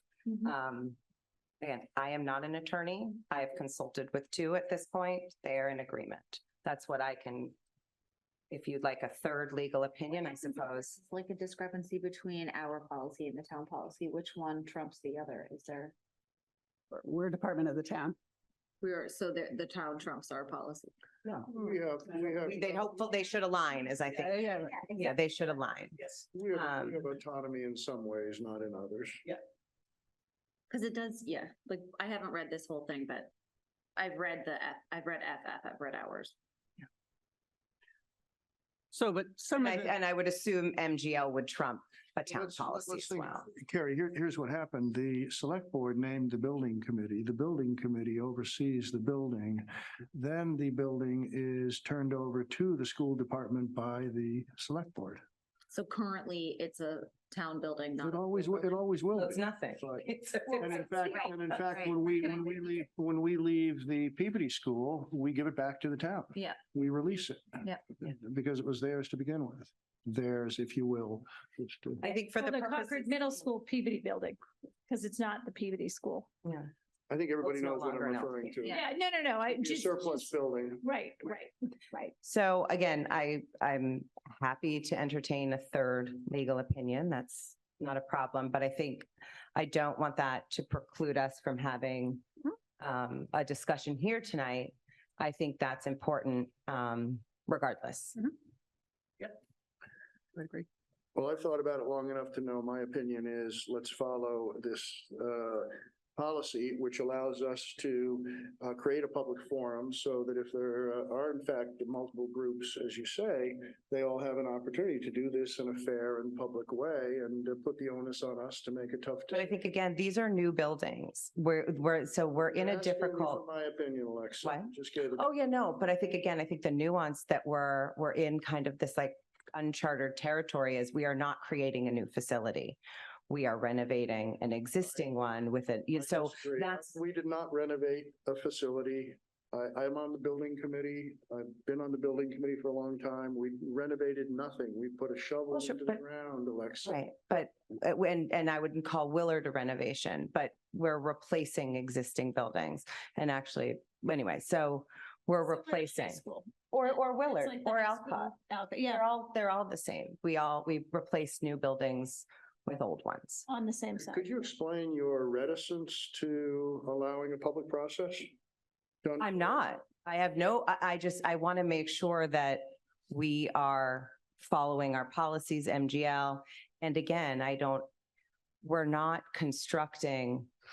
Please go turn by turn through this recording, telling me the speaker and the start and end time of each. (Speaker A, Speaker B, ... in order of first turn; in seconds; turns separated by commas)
Speaker A: 0.4-1.0, Speaker A: 1.6-7.5, Speaker A: 8.5-11.0, Speaker B: 10.4-15.9, Speaker C: 16.9-18.2, Speaker B: 18.8-20.9, Speaker A: 21.2-21.5, Speaker D: 21.5-22.8, Speaker A: 22.2-27.0, Speaker C: 24.2-24.7, Speaker D: 26.3-29.2, Speaker B: 30.7-33.3, Speaker B: 34.0-36.3, Speaker C: 38.9-39.9, Speaker A: 39.6-43.5, Speaker D: 42.2-55.2, Speaker B: 55.7-58.8, Speaker D: 58.0-72.0, Speaker A: 59.1-61.5, Speaker A: 72.0-73.4, Speaker E: 72.4-76.3, Speaker A: 76.4-76.7, Speaker D: 77.1-78.8, Speaker A: 77.4-78.6, Speaker E: 78.7-80.3, Speaker D: 79.5-80.8, Speaker E: 80.8-81.5, Speaker A: 81.9-92.3, Speaker A: 92.8-98.3, Speaker D: 101.1-119.5, Speaker A: 119.3-123.4, Speaker D: 122.4-125.3, Speaker A: 124.4-132.8, Speaker A: 133.3-137.0, Speaker D: 135.9-147.0, Speaker A: 145.5-146.0, Speaker A: 146.8-163.5, Speaker E: 155.4-156.7, Speaker E: 157.2-159.1, Speaker E: 163.5-164.3, Speaker D: 164.0-168.3, Speaker D: 169.0-169.6, Speaker A: 169.2-177.9, Speaker A: 178.6-180.5